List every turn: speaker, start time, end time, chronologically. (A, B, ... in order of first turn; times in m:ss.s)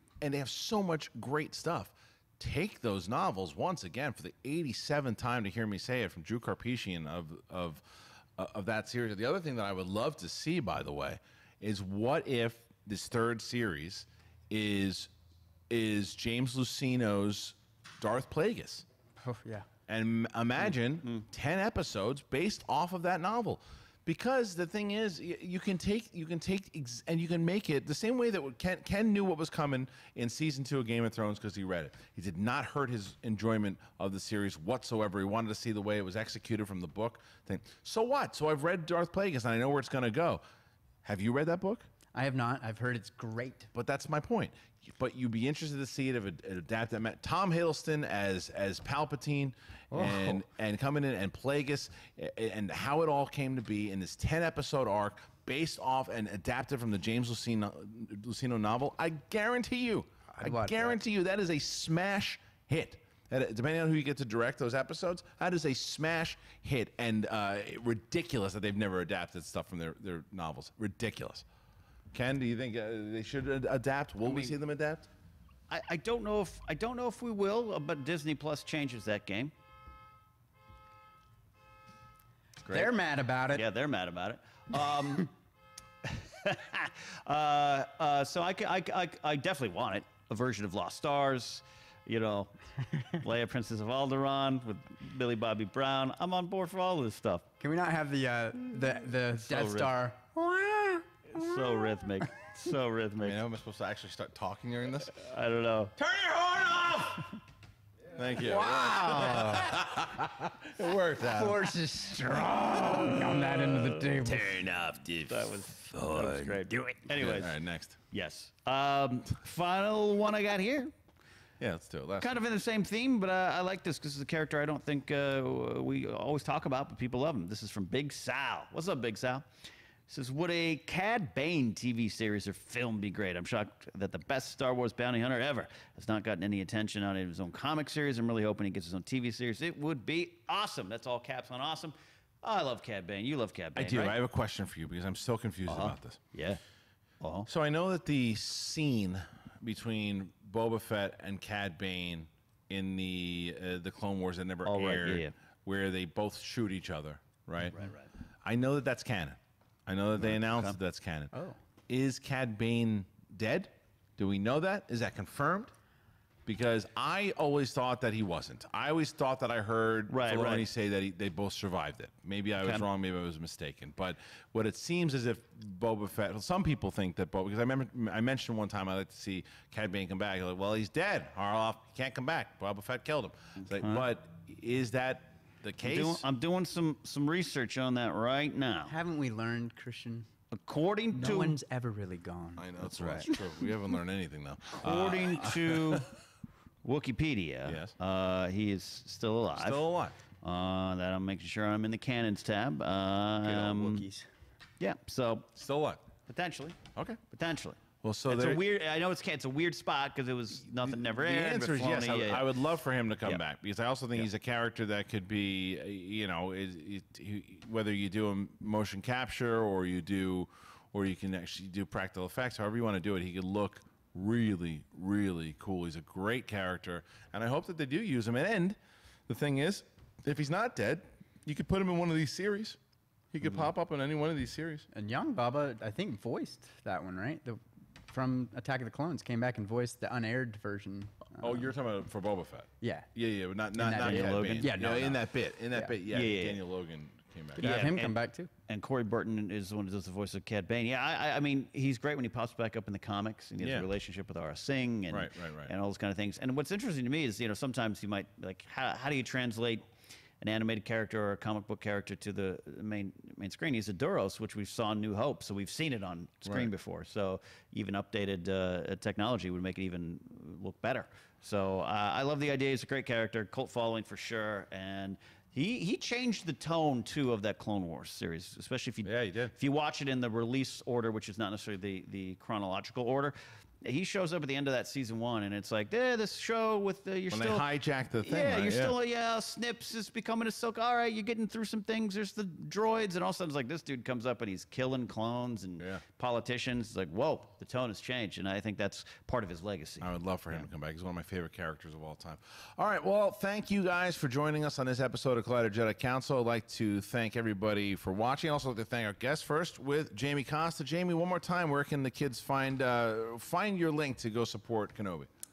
0:00.2-0:15.1 A
0:15.7-0:18.9 A
0:19.2-0:19.7 B
0:19.9-0:40.4 A
0:41.0-0:41.9 A
0:42.2-0:43.7 B
0:43.7-1:11.4 A
0:49.9-0:50.4 B
1:00.3-1:01.0 B
1:12.1-1:15.1 A
1:14.3-1:14.6 C
1:15.7-1:19.5 C
1:22.6-1:22.9 C
1:22.7-1:23.7 B
1:23.5-1:25.3 C
1:26.0-1:37.5 C
1:37.6-1:42.1 B
1:39.4-1:40.0 C
1:41.3-1:43.4 C
1:43.2-1:45.2 A
1:45.1-1:46.0 C
1:46.0-1:47.4 A
1:48.1-1:51.7 A
1:48.4-1:49.9 B
1:51.2-1:54.5 B
1:53.1-1:54.6 C
1:54.2-1:58.0 A
1:55.2-1:57.6 C
1:58.1-2:00.9 C
2:01.6-2:02.4 A
2:02.2-2:09.5 C
2:10.1-2:24.2 C
2:23.8-2:26.2 A
2:25.7-2:26.6 C
2:27.2-2:27.5 C
2:27.5-2:37.8 A
2:34.6-2:35.3 C
2:37.7-2:38.0 C
2:38.4-2:41.3 A
2:40.2-2:40.8 C
2:41.3-2:41.6 B
2:41.9-2:45.7 A
2:46.5-3:06.2 A
2:50.1-2:50.7 C
3:03.8-3:04.1 C
3:05.8-3:08.9 C
3:08.9-3:10.3 B
3:10.5-3:11.6 C
3:11.1-3:13.4 B
3:12.6-3:16.0 A
3:13.0-3:13.3 C
3:14.8-3:16.1 C
3:16.8-3:19.8 C
3:17.6-3:18.0 A
3:19.6-3:20.2 A
3:20.4-3:24.1 C
3:23.4-3:24.3 B
3:24.8-3:25.5 C
3:25.6-3:26.0 A
3:26.3-3:26.8 C
3:26.9-3:27.2 A
3:27.3-3:32.5 C
3:28.0-3:28.6 A
3:30.7-3:52.8 A
3:53.3-3:54.9 A
3:54.9-4:01.7 B
4:01.4-4:07.9 A
4:02.8-4:03.1 B
4:03.8-4:06.0 B
4:03.9-4:04.9 C
4:06.1-4:06.6 C
4:07.6-4:08.5 B
4:07.6-4:19.9 C
4:13.6-4:13.9 A
4:15.1-4:15.7 A
4:20.4-4:47.7 C
4:26.4-4:26.7 A
4:39.0-4:39.6 A
4:47.3-4:49.0 A
4:48.2-5:00.6 C
5:00.0-5:15.3 A